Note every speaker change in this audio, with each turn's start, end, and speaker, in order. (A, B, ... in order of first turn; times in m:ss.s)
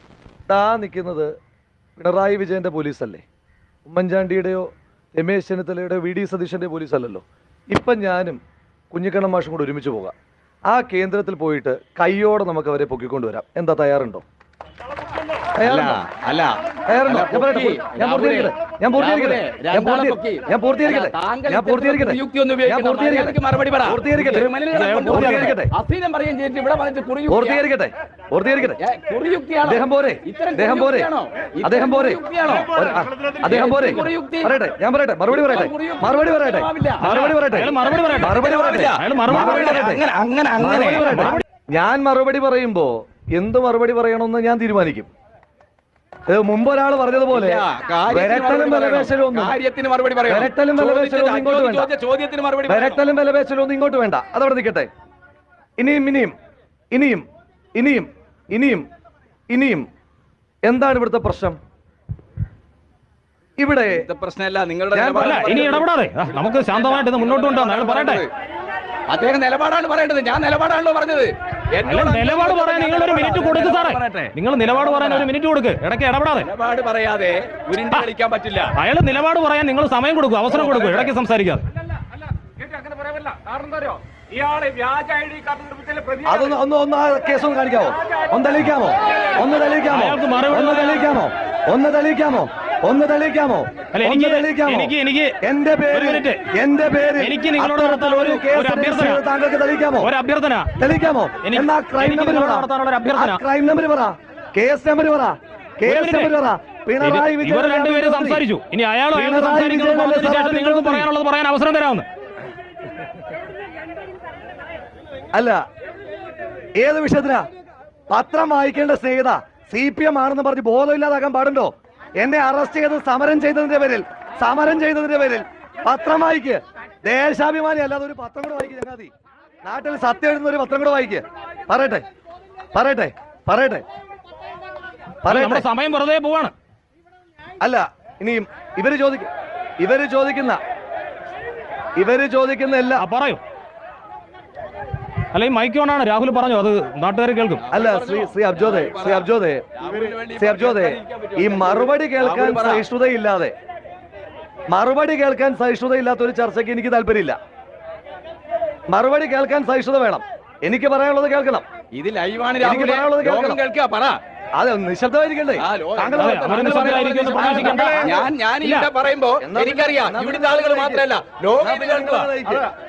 0:00.5-0:01.3 A
0:02.0-0:03.2 A
0:03.8-0:08.4 A
0:08.9-0:10.1 A
0:10.7-0:14.2 A
0:15.6-0:16.0 A
0:15.6-0:27.6 B
0:16.9-0:24.5 A
0:24.7-0:25.6 C
0:25.1-0:25.7 A
0:27.3-0:28.8 A
0:28.8-0:34.5 B
0:29.6-0:31.1 A
0:31.6-0:40.0 A
0:35.3-0:37.1 B
0:37.0-0:39.8 C
0:38.2-0:41.3 B
0:40.6-0:45.1 A
0:41.0-0:41.4 C
0:46.3-0:49.5 A
0:47.3-0:53.0 B
0:50.3-0:51.9 A
0:52.7-0:54.9 A
0:55.8-0:56.3 A
0:56.9-0:57.2 A
0:57.8-0:58.8 A
0:59.5-0:59.9 A
1:00.6-1:01.6 A
1:03.6-1:04.0 A
1:03.9-1:08.3 B
1:04.9-1:05.8 A
1:05.2-1:08.2 C
1:09.1-1:15.3 B
1:11.8-1:16.5 C
1:16.4-1:18.7 B
1:18.8-1:21.6 C
1:20.5-1:21.1 B
1:22.7-1:26.2 B
1:26.2-1:40.1 A
1:29.9-1:31.2 C
1:33.9-1:35.4 C
1:35.9-1:36.4 C
1:37.2-1:39.2 C
1:40.0-1:40.7 C
1:40.8-1:48.4 A
1:41.4-1:43.4 C
1:45.8-1:46.3 C
1:47.0-1:52.0 C
1:49.1-1:51.1 A
1:55.3-1:55.6 A
1:56.8-1:57.4 A
1:58.1-2:09.1 A
2:09.6-2:12.0 A
2:12.7-2:13.8 A
2:15.2-2:15.6 A
2:15.3-2:16.5 C
2:17.6-2:20.6 A
2:22.0-2:23.1 A
2:23.0-2:23.4 C
2:25.3-2:27.6 C
2:27.6-2:32.8 B
2:27.7-2:29.6 A
2:30.4-2:33.5 A
2:34.7-2:37.4 A
2:38.9-2:41.6 A
2:41.9-2:44.2 B
2:42.6-2:43.6 A
2:44.5-2:48.2 A
2:45.6-2:52.7 B
2:46.2-2:48.9 C
2:49.4-2:51.0 A
2:51.6-2:52.7 A